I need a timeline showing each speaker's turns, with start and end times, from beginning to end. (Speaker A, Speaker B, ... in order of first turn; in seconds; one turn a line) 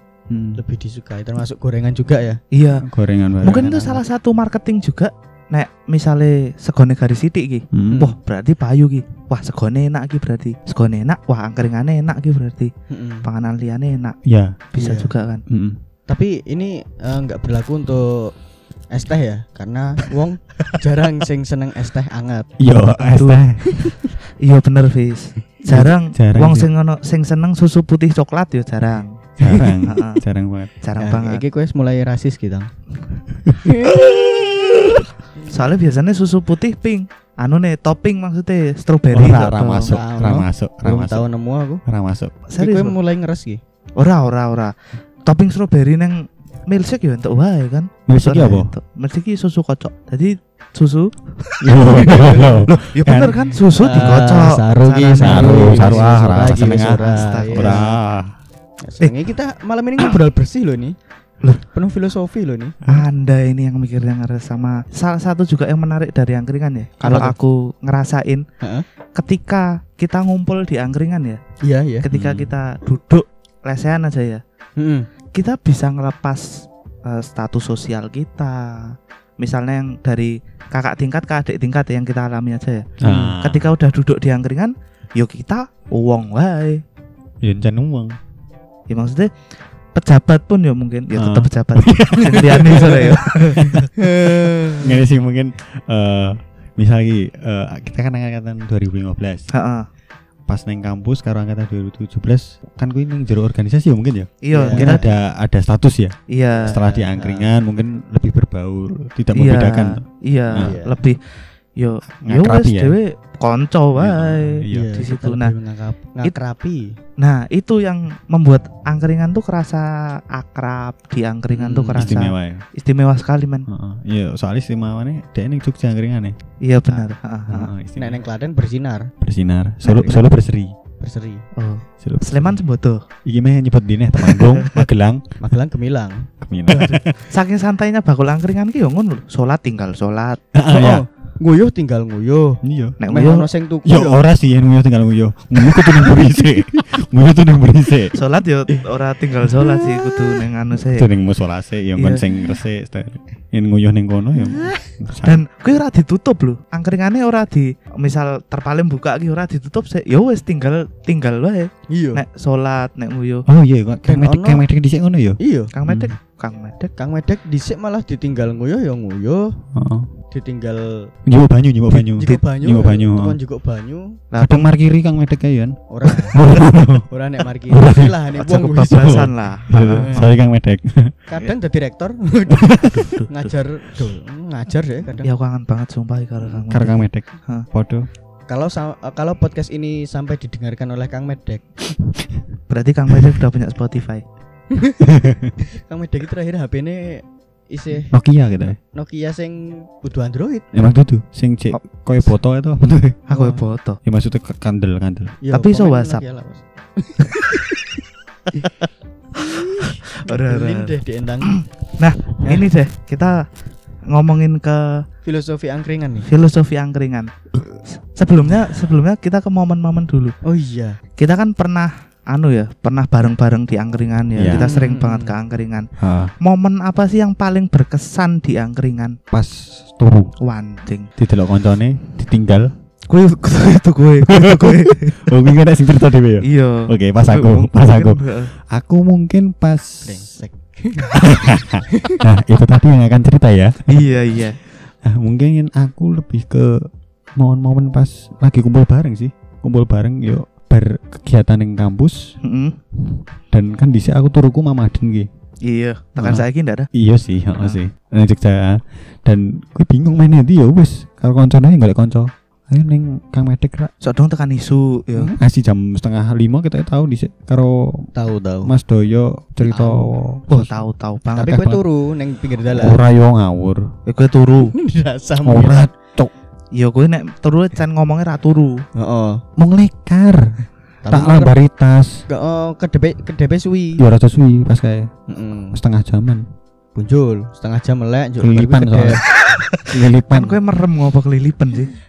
Speaker A: 0.3-0.6
Speaker B: 0.6-2.4
Speaker C: 2.5-2.9
Speaker A: 2.8-4.0
Speaker C: 3.4-12.7
Speaker A: 7.7-8.0
Speaker B: 7.9-8.2
Speaker B: 12.9-13.3
Speaker C: 13.2-14.2
Speaker A: 14.2-14.6
Speaker C: 14.7-15.4
Speaker B: 14.8-15.1
Speaker A: 15.5-15.8
Speaker B: 16.1-18.3
Speaker B: 18.9-22.5
Speaker A: 22.6-23.7
Speaker C: 23.1-29.1
Speaker B: 23.6-24.0
Speaker A: 25.7-26.7
Speaker A: 29.4-30.7
Speaker B: 29.5-29.8
Speaker C: 29.9-30.2
Speaker C: 30.8-31.4
Speaker B: 31.0-32.7
Speaker B: 33.6-34.0
Speaker C: 33.9-40.0
Speaker A: 39.1-41.3
Speaker B: 39.9-41.8
Speaker A: 41.9-42.4
Speaker C: 42.5-43.0
Speaker B: 42.6-43.6
Speaker C: 44.0-57.8
Speaker A: 48.1-48.7
Speaker A: 51.6-53.6
Speaker B: 52.1-52.5
Speaker B: 53.8-58.0
Speaker A: 55.2-58.4
Speaker B: 58.8-61.0
Speaker B: 61.6-62.8
Speaker C: 62.9-68.4
Speaker B: 67.0-67.3
Speaker C: 69.2-71.4
Speaker B: 71.6-72.1
Speaker C: 72.0-74.4
Speaker A: 72.1-72.5
Speaker B: 74.8-75.1
Speaker C: 75.3-86.8
Speaker A: 83.0-83.7
Speaker B: 83.0-83.3
Speaker A: 87.4-88.2
Speaker C: 88.9-93.8
Speaker A: 91.2-93.9
Speaker B: 92.7-93.2
Speaker B: 94.0-94.9
Speaker A: 94.8-99.5
Speaker C: 99.5-99.9
Speaker A: 100.5-110.8
Speaker C: 104.4-105.1
Speaker B: 104.5-105.0
Speaker C: 106.3-106.8
Speaker B: 106.7-107.5
Speaker C: 109.3-115.5
Speaker B: 110.6-111.0
Speaker A: 112.2-113.0
Speaker A: 113.9-115.0
Speaker B: 114.7-117.0
Speaker C: 117.2-123.7
Speaker B: 121.5-122.2
Speaker A: 122.0-122.7
Speaker A: 123.7-126.4
Speaker C: 126.6-127.7
Speaker A: 127.5-128.2
Speaker B: 128.0-129.1
Speaker A: 129.2-130.7
Speaker C: 129.8-130.2
Speaker B: 131.0-131.5
Speaker C: 131.6-133.0
Speaker A: 132.0-132.6
Speaker A: 133.2-135.2
Speaker C: 134.2-134.9
Speaker B: 135.4-137.0
Speaker A: 136.4-137.2
Speaker C: 137.3-140.4
Speaker A: 140.5-141.0
Speaker B: 140.7-144.2
Speaker A: 142.6-143.0
Speaker C: 143.0-143.5
Speaker A: 143.8-148.2
Speaker B: 145.7-146.2
Speaker C: 148.2-151.1
Speaker A: 150.9-155.4
Speaker C: 152.0-152.2
Speaker C: 155.2-163.5
Speaker B: 161.9-162.2
Speaker A: 163.5-166.1
Speaker B: 164.1-164.6
Speaker B: 165.4-165.7
Speaker C: 165.7-166.9
Speaker B: 167.0-169.6
Speaker A: 169.7-170.1
Speaker B: 170.3-171.1
Speaker A: 171.3-173.4
Speaker B: 171.9-174.2
Speaker C: 174.3-174.7
Speaker A: 174.4-177.1
Speaker B: 175.9-176.4
Speaker B: 177.1-180.2
Speaker A: 177.7-178.2
Speaker C: 178.4-180.3
Speaker A: 178.9-181.2
Speaker B: 181.3-185.3
Speaker C: 183.0-183.5
Speaker C: 185.2-187.7
Speaker A: 186.7-188.1
Speaker B: 188.5-191.7
Speaker C: 192.7-194.2
Speaker B: 194.7-195.1
Speaker A: 195.0-195.5
Speaker B: 195.7-198.2
Speaker A: 198.1-198.8
Speaker B: 198.9-200.7
Speaker A: 200.7-203.2
Speaker C: 203.3-204.0
Speaker B: 203.3-203.6
Speaker A: 204.0-205.4
Speaker B: 205.4-207.6
Speaker C: 205.5-206.2
Speaker C: 208.5-208.9
Speaker B: 209.6-211.6
Speaker C: 210.3-215.1
Speaker B: 212.4-212.7
Speaker B: 215.2-216.3
Speaker C: 216.3-220.4
Speaker B: 220.4-221.0
Speaker C: 221.2-225.9
Speaker A: 224.4-224.6
Speaker B: 224.5-225.3
Speaker A: 226.0-226.3
Speaker C: 226.4-229.2
Speaker A: 229.3-230.3
Speaker C: 230.4-231.1
Speaker A: 231.2-232.7
Speaker C: 233.1-235.3
Speaker A: 234.3-240.2
Speaker C: 236.4-238.5
Speaker B: 240.0-241.2
Speaker A: 241.2-252.4
Speaker C: 243.9-244.6
Speaker C: 252.4-252.8
Speaker A: 253.0-255.3
Speaker C: 255.6-256.9
Speaker A: 256.2-263.9
Speaker C: 264.0-265.3
Speaker A: 265.1-268.1
Speaker B: 268.1-268.7
Speaker A: 268.6-270.8
Speaker B: 269.6-270.1
Speaker C: 270.5-271.5
Speaker B: 271.4-273.0
Speaker A: 271.4-271.9
Speaker A: 272.6-273.9
Speaker C: 274.1-274.7
Speaker B: 274.7-275.9
Speaker A: 275.4-276.3
Speaker C: 276.7-278.9
Speaker B: 279.0-279.4
Speaker A: 279.6-280.4
Speaker B: 281.0-281.6
Speaker A: 281.1-282.2
Speaker B: 282.3-284.0
Speaker A: 284.0-285.1
Speaker B: 285.3-285.8
Speaker A: 285.7-286.4
Speaker B: 286.9-289.2
Speaker A: 288.4-289.3
Speaker C: 289.5-291.9
Speaker A: 289.9-290.6